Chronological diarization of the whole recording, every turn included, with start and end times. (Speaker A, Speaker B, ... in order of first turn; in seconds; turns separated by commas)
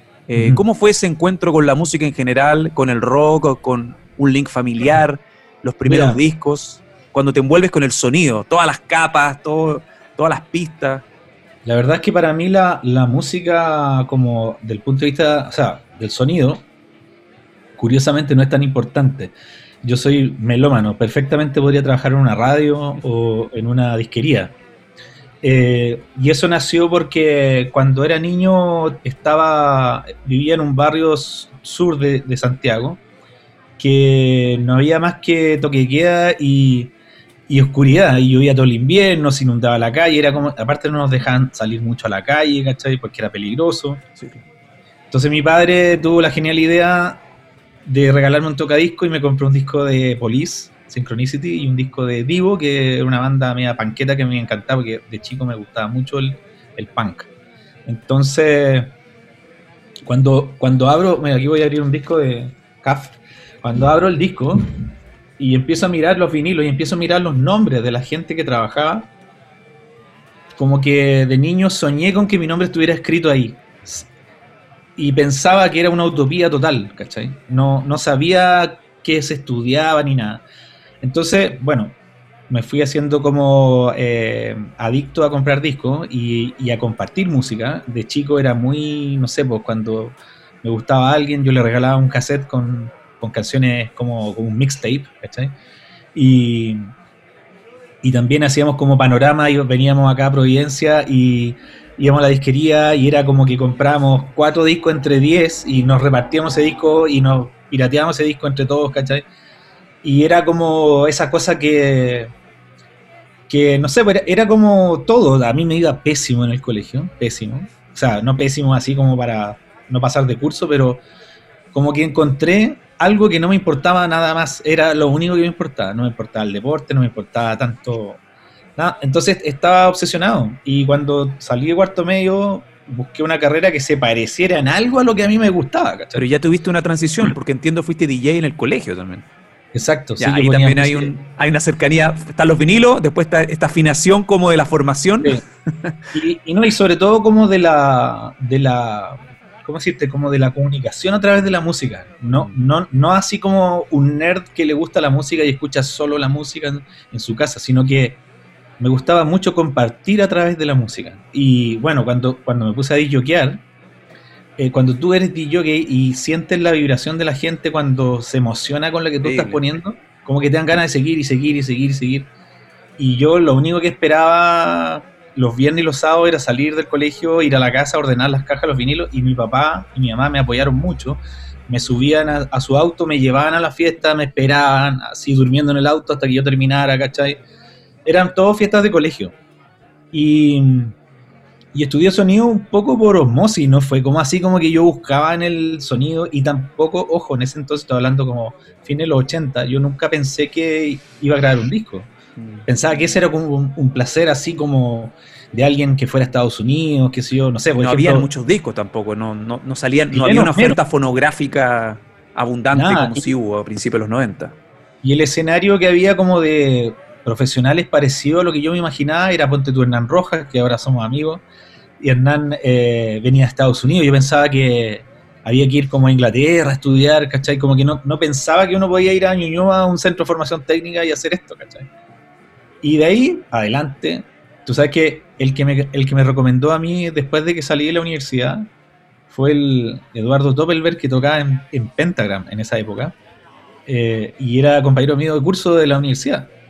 Speaker A: 0.3-11.0, Speaker B: 0.3-0.6, Speaker B: 5.9-6.2, Speaker B: 11.7-16.6, Speaker B: 17.8-24.6, Speaker B: 25.4-33.0, Speaker B: 33.8-36.9, Speaker B: 37.5-44.0, Speaker A: 44.2-44.4, Speaker B: 45.1-47.2, Speaker B: 47.9-57.3, Speaker B: 57.9-59.0, Speaker B: 60.1-64.7, Speaker B: 65.4-69.1, Speaker B: 70.6-74.1, Speaker B: 75.0-80.4, Speaker B: 81.0-82.0, Speaker B: 82.5-95.5, Speaker B: 96.2-96.9, Speaker B: 98.0-109.2, Speaker B: 110.0-112.3, Speaker B: 113.5-121.0, Speaker B: 121.7-128.2, Speaker B: 128.8-136.2, Speaker A: 136.1-139.3, Speaker B: 139.7-141.1, Speaker A: 140.2-146.0, Speaker B: 146.1-158.2, Speaker B: 158.8-163.6, Speaker B: 164.6-172.3, Speaker A: 169.2-169.6, Speaker B: 173.0-187.4, Speaker B: 188.1-189.3, Speaker B: 190.1-190.9, Speaker B: 191.7-202.1, Speaker A: 202.4-202.7, Speaker B: 202.7-208.3, Speaker A: 207.8-214.6, Speaker B: 210.1-210.8, Speaker B: 212.8-213.3, Speaker B: 215.0-221.4, Speaker B: 222.0-231.9, Speaker B: 232.8-238.7, Speaker B: 239.3-243.2, Speaker B: 243.9-246.5